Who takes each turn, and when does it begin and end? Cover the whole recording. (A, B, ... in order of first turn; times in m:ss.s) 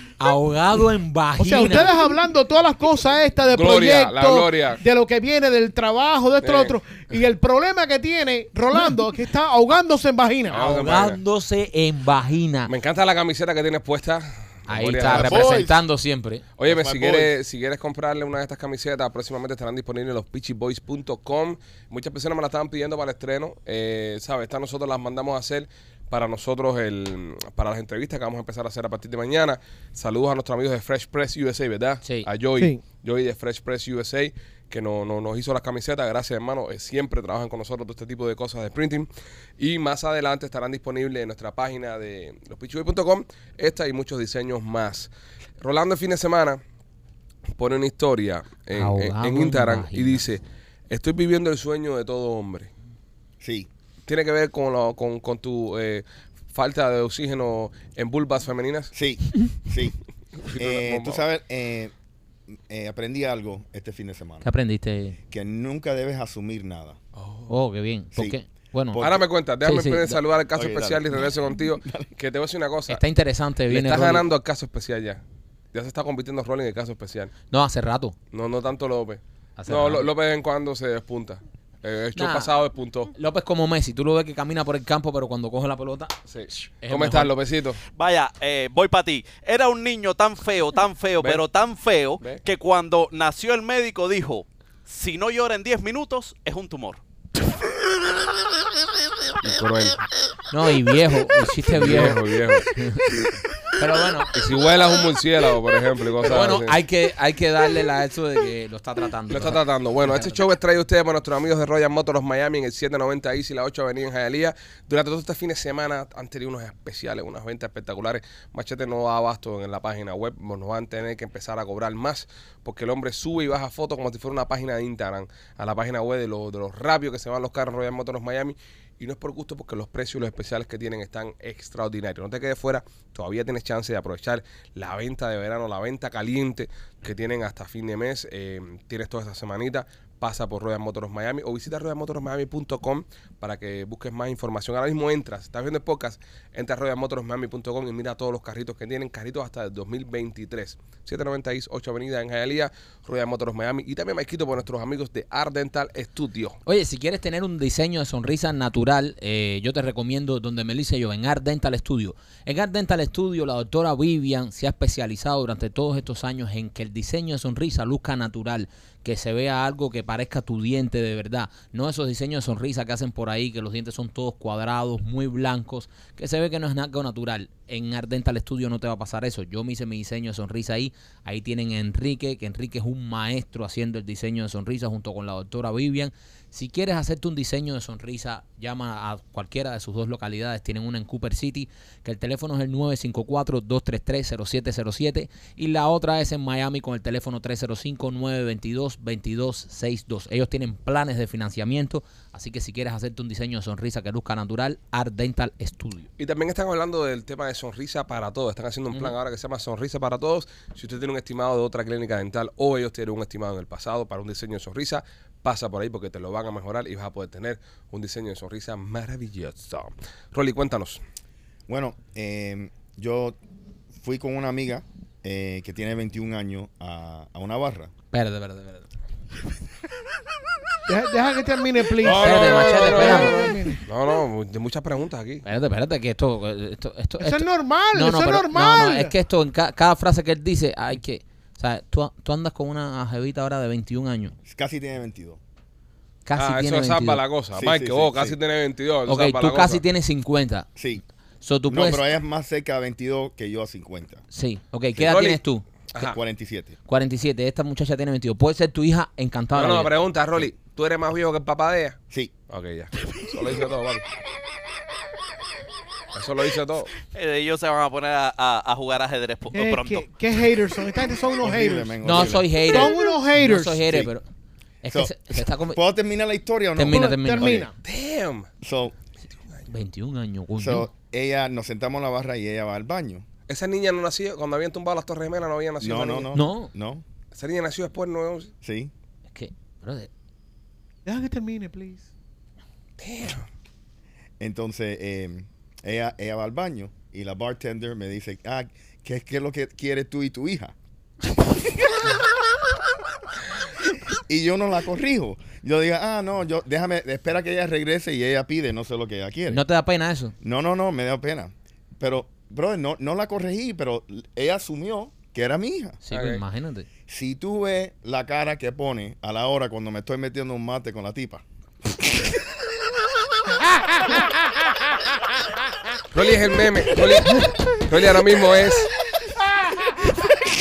0:00.2-0:01.9 A
0:01.4-0:11.0 B
0:03.5-0:04.8 C
0:06.4-0:06.7 C
0:10.5-0:11.2 C
0:10.6-0:12.7 A
0:12.7-0:15.6 C
0:14.7-0:16.4 A
0:15.0-0:15.8 D
0:16.6-0:39.1 C
0:16.7-0:17.3 D
0:39.6-0:45.1 C
0:45.6-0:46.6 C
0:47.6-0:52.7 C
0:48.7-0:50.2 A
0:53.4-0:53.7 D
0:54.0-0:58.9 C
0:58.9-1:00.0 D
1:00.4-1:01.2 C
1:00.6-1:01.9 D
1:02.5-1:04.5 D
1:04.4-1:05.2 A
1:05.3-1:07.0 D
1:07.1-1:07.5 C
1:07.5-1:09.0 A
1:08.9-1:09.2 D
1:09.0-1:13.0 C
1:09.6-1:10.2 A
1:10.5-1:11.2 D
1:11.8-1:12.1 D
1:12.9-1:14.2 A
1:13.7-1:15.2 C
1:15.7-1:17.3 C
1:17.5-1:18.1 A
1:18.3-1:23.1 C
1:19.6-1:20.0 A
1:22.1-1:22.5 A
1:23.1-1:26.1 A
1:26.3-1:27.8 C
1:26.8-1:27.3 A
1:27.9-1:37.0 E
1:39.4-1:40.0 C
1:40.5-1:42.2 A
1:41.7-1:42.6 C
1:42.7-1:43.1 A
1:43.8-1:44.3 A
1:44.3-1:46.8 C
1:46.2-1:50.4 A
1:49.3-2:36.6 C
2:36.6-3:26.1 A
3:26.2-3:41.0 C
3:41.7-3:43.4 D
3:44.0-3:47.9 D
3:48.1-3:48.8 A
3:50.8-3:53.8 B
3:52.0-3:55.4 C
3:52.1-3:53.4 A
3:55.4-4:04.3 A
3:57.2-3:59.1 B
4:04.4-4:05.4 D
4:06.2-4:07.2 A
4:06.4-4:09.8 C
4:07.5-4:08.4 D
4:09.1-4:10.7 A
4:10.8-4:11.0 D
4:11.4-4:12.0 A
4:11.7-4:14.2 D
4:14.3-4:15.6 A
4:15.0-4:15.4 C
4:16.0-4:16.8 D
4:16.9-4:19.9 A
4:19.5-4:22.0 C
4:22.5-4:24.1 C
4:26.1-4:27.0 C
4:27.1-4:30.1 E
4:29.5-4:33.8 B
4:31.4-4:32.7 D
4:32.0-4:34.2 A
4:33.8-4:34.1 D
4:34.8-4:35.8 A
4:34.9-4:37.7 D
4:36.8-4:37.6 A
4:36.9-4:37.7 B
4:37.8-4:38.5 C
4:38.6-4:38.9 D
4:39.7-4:40.9 A
4:40.6-4:43.2 D
4:43.5-4:46.3 C
4:45.8-4:47.0 D
4:46.3-4:46.7 A
4:47.3-4:48.5 C
4:48.6-4:48.9 D
4:49.3-4:50.1 A
4:51.0-4:52.1 B
4:53.0-4:53.4 C
4:54.4-5:00.7 D
5:04.1-5:09.6 D
5:09.5-5:10.3 A
5:10.4-5:16.0 D
5:16.0-5:16.9 A
5:16.1-5:16.4 C
5:17.1-5:21.4 D
5:26.1-5:28.9 C
5:29.4-5:30.2 B